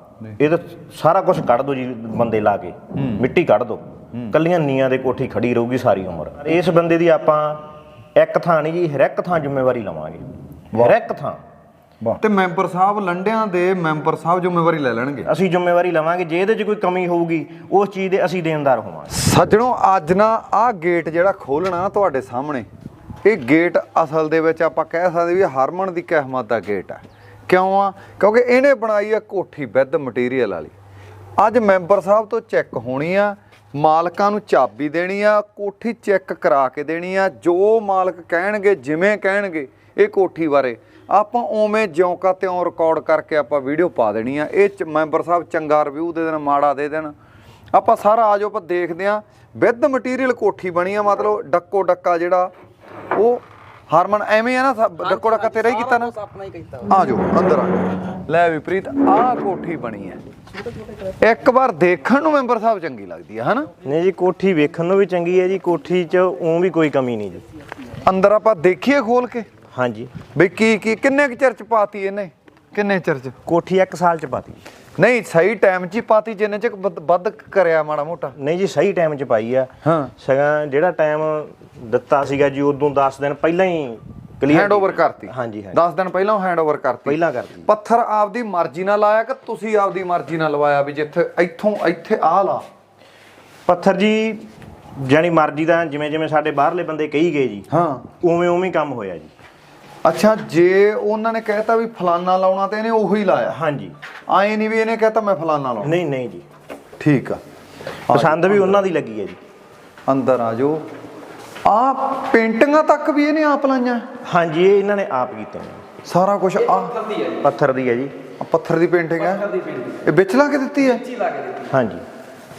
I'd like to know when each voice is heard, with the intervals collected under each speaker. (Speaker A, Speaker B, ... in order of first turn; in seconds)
Speaker A: 0.4-7.6, 8.2-10.2, 10.8-11.4, 15.3-19.1, 63.8-67.4, 69.7-70.1, 73.5-74.6, 78.3-85.8, 87.1-87.7, 93.7-97.7, 98.2-99.3, 103.5-103.9, 105.8-106.5, 108.1-109.4, 114.3-115.8, 117.4-118.1, 121.7-122.0
Speaker B: 3.0-3.3, 12.0-15.3, 19.1-22.7, 23.2-30.7, 31.4-47.1, 47.7-52.5, 53.1-56.1, 56.9-60.2, 61.2-63.7, 68.0-69.5, 70.3-73.3, 75.0-78.3, 79.8-80.1, 84.5-92.7, 97.7-98.0, 100.0-103.6, 104.3-106.0, 107.0-107.4, 108.1-108.8, 110.1-110.8, 111.7-114.0, 116.0-116.9, 118.4-119.4, 120.0-121.0
Speaker C: 55.0-57.0, 116.6-117.5, 119.2-120.1, 120.8-121.7